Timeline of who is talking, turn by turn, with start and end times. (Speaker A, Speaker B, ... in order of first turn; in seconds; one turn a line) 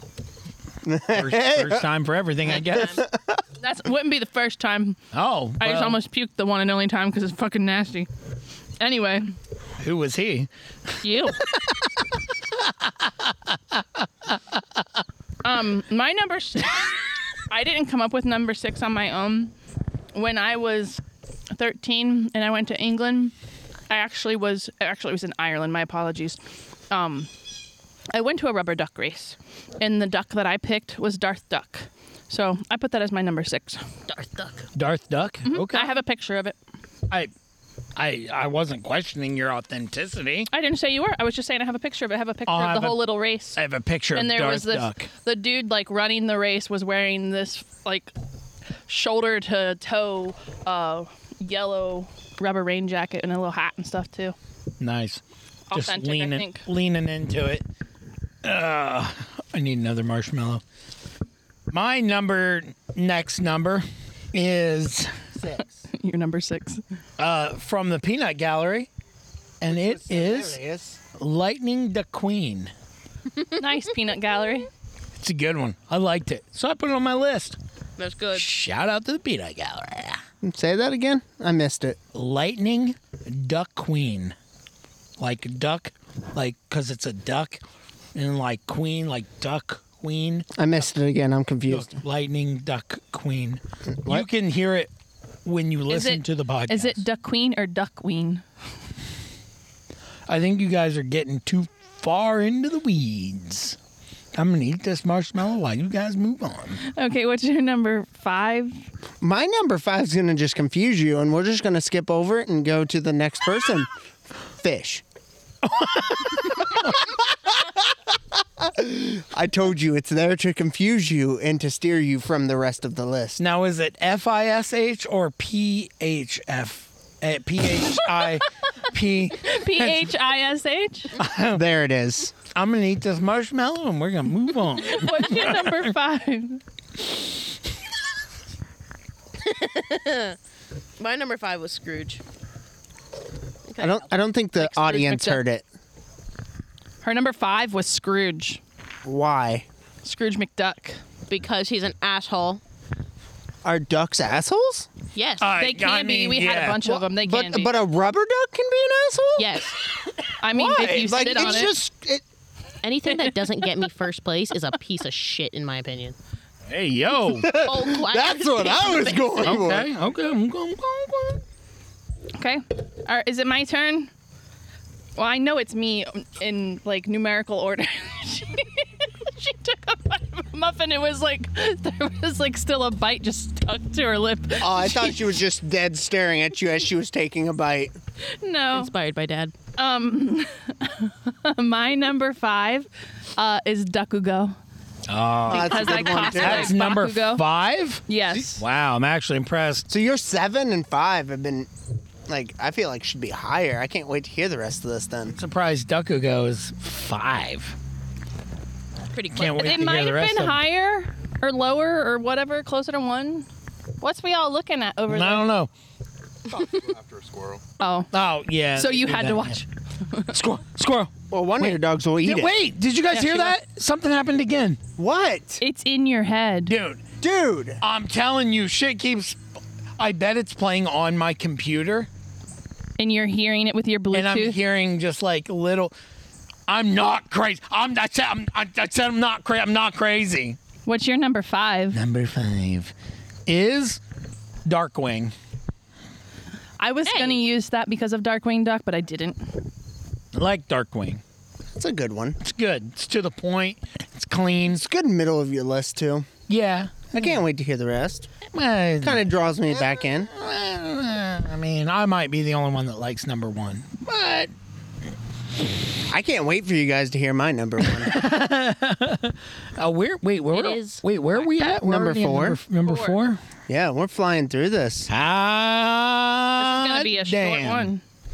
Speaker A: 0.8-1.9
Speaker B: 1.1-3.0
Speaker C: 2.5-2.9
Speaker A: 2.6-3.4
Speaker D: 3.6-5.0
Speaker B: 5.1-6.0
Speaker D: 5.6-8.1
Speaker D: 8.8-9.3
Speaker B: 9.8-10.5
Speaker D: 11.0-11.4
Speaker B: 12.5-14.6
Speaker D: 15.4-16.9
Speaker D: 17.5-19.5
Speaker D: 20.1-23.3
Speaker D: 23.9-26.4
Speaker D: 26.9-27.3
Speaker D: 28.1-33.8
Speaker C: 34.1-34.6
Speaker B: 34.7-36.0
Speaker D: 35.5-36.6
Speaker B: 38.0-40.5
Speaker D: 40.5-43.6
Speaker B: 42.5-45.1
Speaker D: 44.1-48.1
Speaker D: 48.9-54.3
Speaker B: 54.8-57.6
Speaker D: 55.7-56.6
Speaker B: 58.4-60.6
Speaker B: 61.7-65.7
Speaker D: 65.8-66.8
Speaker B: 67.2-68.9
Speaker B: 69.6-70.6
Speaker A: 69.6-71.0
Speaker B: 71.1-72.7
Speaker D: 73.6-74.7
Speaker B: 75.2-77.6
Speaker C: 78.0-78.5
Speaker B: 78.3-80.2
Speaker A: 80.4-82.0
Speaker B: 82.1-84.3
Speaker B: 85.2-87.6
Speaker B: 88.1-90.5
Speaker A: 90.5-91.9
Speaker B: 91.7-94.9
Speaker A: 93.9-94.3
Speaker B: 95.4-97.0
Speaker D: 95.9-98.4
Speaker B: 100.3-103.8
Speaker B: 104.3-106.8
Speaker D: 106.8-108.8
Speaker A: 109.2-113.9
Speaker A: 114.6-115.0
Speaker B: 115.6-117.1
Speaker A: 118.6-123.4
Speaker B: 123.4-130.1
Speaker D: 129.4-131.1
Speaker B: 131.2-131.6
Speaker A: 131.5-132.3
Speaker B: 132.5-135.9
Speaker D: 134.8-136.6
Speaker C: 139.4-140.3
Speaker C: 141.0-142.2
Speaker C: 143.7-145.4
Speaker A: 143.8-145.6
Speaker D: 147.0-148.6
Speaker A: 149.0-149.7
Speaker D: 150.0-151.0
Speaker C: 151.3-152.6
Speaker A: 153.6-154.9
Speaker C: 155.1-155.5
Speaker B: 155.4-156.9
Speaker D: 155.6-157.7
Speaker A: 156.8-159.7
Speaker C: 159.4-159.8
Speaker D: 160.4-161.8
Speaker A: 160.6-162.2
Speaker B: 160.7-161.0
Speaker C: 162.8-166.2
Speaker B: 166.7-167.5
Speaker A: 167.2-169.9
Speaker C: 167.4-169.6
Speaker B: 169.4-171.4
Speaker D: 172.4-174.1
Speaker D: 175.2-185.3
Speaker A: 184.6-187.9
Speaker D: 188.4-188.9
Speaker C: 188.7-189.5
Speaker D: 189.8-194.6
Speaker B: 195.1-199.9
Speaker A: 195.5-196.7
Speaker D: 195.5-197.4
Speaker D: 198.1-198.6
Speaker A: 199.9-201.7
Speaker A: 202.3-205.4
Speaker B: 205.3-207.8
Speaker C: 209.1-210.1
Speaker B: 209.3-210.6
Speaker D: 209.6-213.5
Speaker D: 214.0-215.5
Speaker B: 215.1-215.7
Speaker D: 217.8-218.1
Speaker B: 218.1-219.6
Speaker D: 218.7-220.4
Speaker B: 220.3-224.8
Speaker A: 221.3-222.6
Speaker D: 223.1-223.5
Speaker A: 225.0-225.6
Speaker D: 225.6-226.7
Speaker B: 226.7-227.1
Speaker A: 227.2-227.8
Speaker B: 227.8-229.4
Speaker B: 230.0-232.1
Speaker D: 233.0-234.6
Speaker B: 234.1-235.9
Speaker B: 236.7-240.6
Speaker D: 240.8-242.0
Speaker B: 241.9-242.9
Speaker B: 243.4-244.0
Speaker B: 244.6-245.3
Speaker D: 246.8-249.5
Speaker C: 247.1-247.4
Speaker B: 250.3-251.2
Speaker A: 251.8-252.4
Speaker B: 252.4-254.8
Speaker A: 254.7-256.3
Speaker B: 256.5-257.4
Speaker A: 257.1-258.3
Speaker B: 258.5-259.2
Speaker A: 259.0-260.3
Speaker B: 260.3-264.5
Speaker A: 266.1-268.2
Speaker B: 267.9-273.4
Speaker C: 270.5-271.6
Speaker A: 271.6-272.6
Speaker D: 272.8-273.2
Speaker A: 273.7-275.1
Speaker B: 275.1-277.9
Speaker D: 276.6-278.0